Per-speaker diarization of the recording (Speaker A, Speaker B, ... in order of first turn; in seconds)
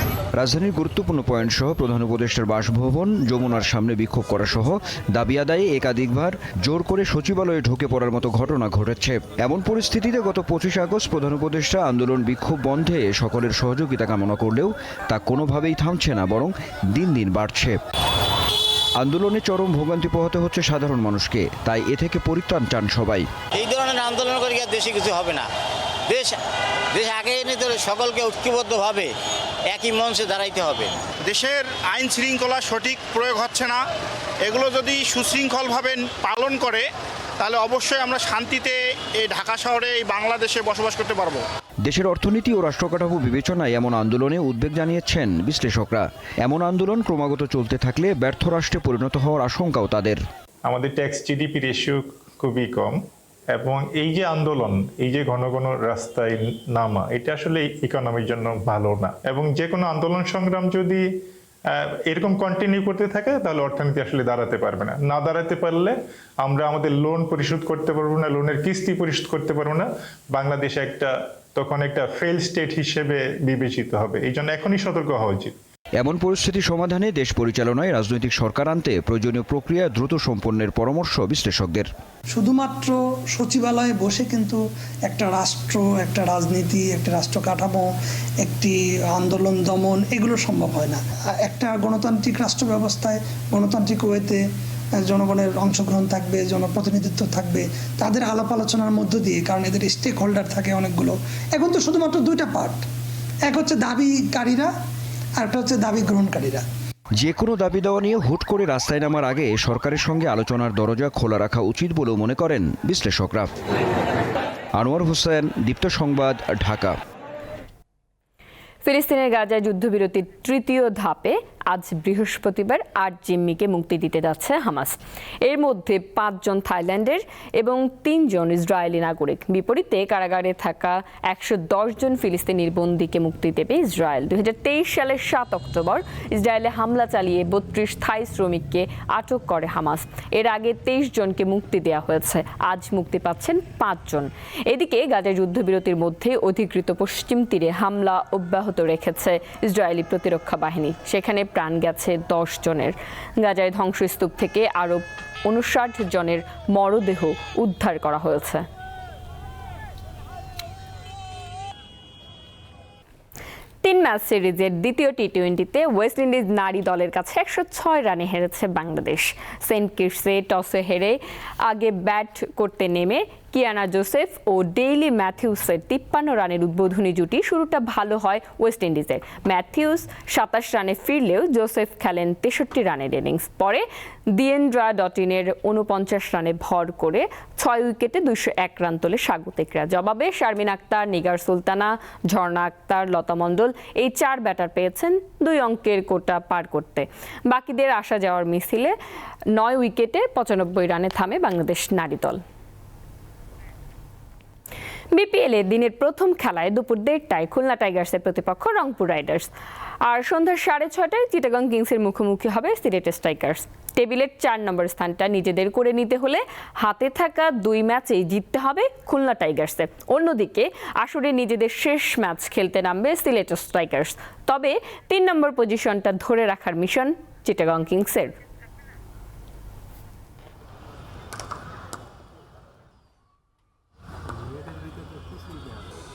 Speaker A: 0.3-17.8, 19.0-23.2, 41.8-50.2, 76.0-81.9, 107.2-113.5, 114.8-116.9
Speaker B: 23.5-25.5, 26.1-26.4, 26.9-29.1, 29.7-30.9
Speaker C: 31.3-33.8, 34.5-36.8, 37.4-41.4
Speaker D: 50.6-53.0, 53.5-61.0, 61.7-75.5
Speaker E: 82.3-94.4, 95.0-102.8, 103.4-104.7, 105.4-106.7
Speaker F: 118.8-158.6, 163.8-198.9, 199.5-202.4, 205.1-209.5, 210.0-228.3